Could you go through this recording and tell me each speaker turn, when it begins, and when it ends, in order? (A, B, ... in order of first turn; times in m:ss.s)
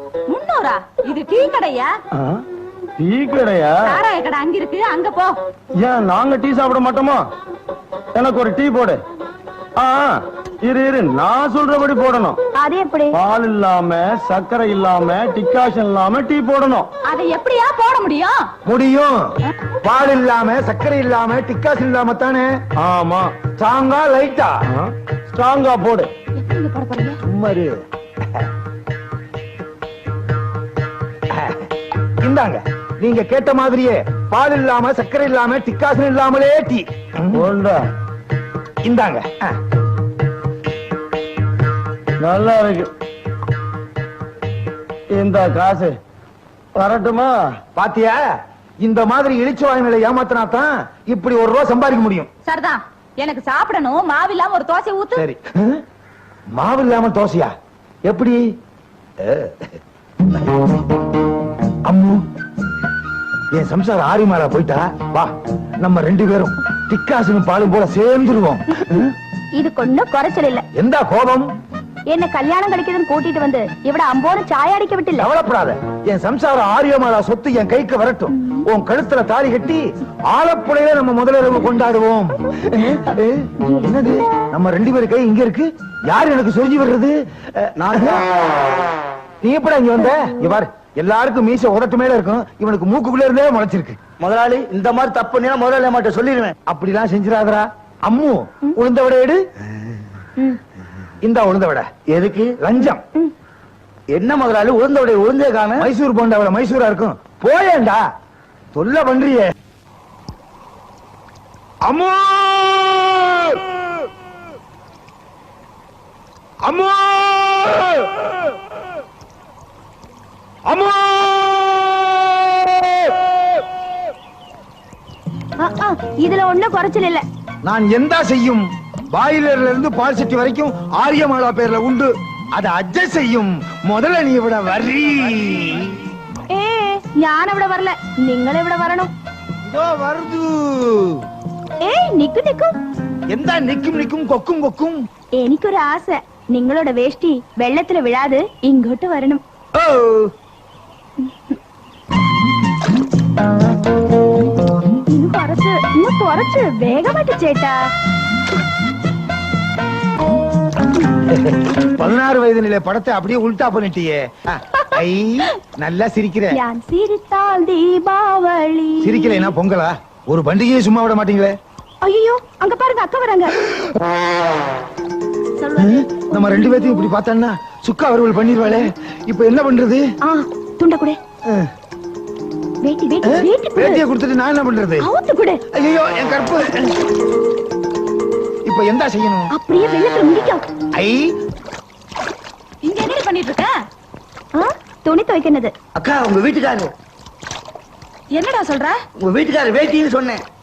0:00.3-0:01.9 A
0:02.1-0:02.4 B
0:03.0-0:03.7 B
0:03.8-0:05.3 A
0:05.8-0:07.2 B
0:08.1-0:09.0 B
0:09.8-0:12.4 B
0:12.6-0:13.2 C
0:13.1-0:16.9 B
0:17.1-0:18.3 A
0:18.6-0:19.2 D
0:19.8-0:22.5 D
0:22.8-0:23.4 B
0:23.6-0:24.5 D
0:24.7-0:26.1 B
0:26.4-0:27.2 A
0:27.2-0:27.7 D
0:31.3-0:31.7 D
0:32.2-0:37.5 D
0:37.3-0:37.8 B
0:38.8-0:39.4 D
0:42.2-0:42.9 B
0:45.1-0:46.0 B
0:46.7-0:47.3 B
0:47.8-0:48.2 D
0:48.8-0:52.3 D
0:52.4-0:55.3 A
0:55.2-0:55.8 D
0:56.6-0:57.5 D
0:58.1-0:58.4 D
0:59.2-0:59.8 D
1:01.8-1:02.2 D
1:03.5-1:05.3 D
1:05.8-1:09.1 D
1:09.6-1:10.6 C
1:10.8-1:11.5 D
1:12.1-1:15.3 C
1:15.2-1:28.2 D
1:23.6-1:24.0 C
1:27.8-1:28.2 E
1:29.4-1:34.0 D
1:34.2-1:36.5 E
1:36.7-1:39.4 D
1:41.2-1:41.9 D
1:42.1-1:42.6 E
1:42.6-1:43.0 D
1:44.1-1:45.9 E
1:45.8-1:48.0 D
1:48.7-1:49.5 D
1:51.8-1:53.9 D
1:56.6-1:58.4 D
2:00.7-2:03.3 D
2:05.6-2:07.2 C
2:07.6-2:15.9 D
2:16.5-2:19.1 C
2:19.7-2:21.2 D
2:21.8-2:22.7 C
2:23.3-2:25.0 D
2:25.4-2:29.4 C
2:29.8-2:30.3 D
2:31.2-2:31.5 C
2:35.1-2:37.8 C
2:41.3-2:46.6 D
2:46.5-2:49.5 C
2:49.0-2:51.5 D
2:52.0-2:53.6 C
2:55.6-2:56.7 C
2:55.8-3:00.0 D
3:00.2-3:01.2 C
3:02.8-3:04.0 C
3:03.2-3:05.1 D
3:05.0-3:05.6 C
3:05.7-3:07.0 D
3:08.6-3:09.5 D
3:09.5-3:10.6 C
3:10.9-3:11.3 D
3:12.8-3:13.7 A
3:14.5-3:15.7 C
3:15.9-3:16.9 E
3:18.3-3:19.0 A
3:19.2-3:20.4 E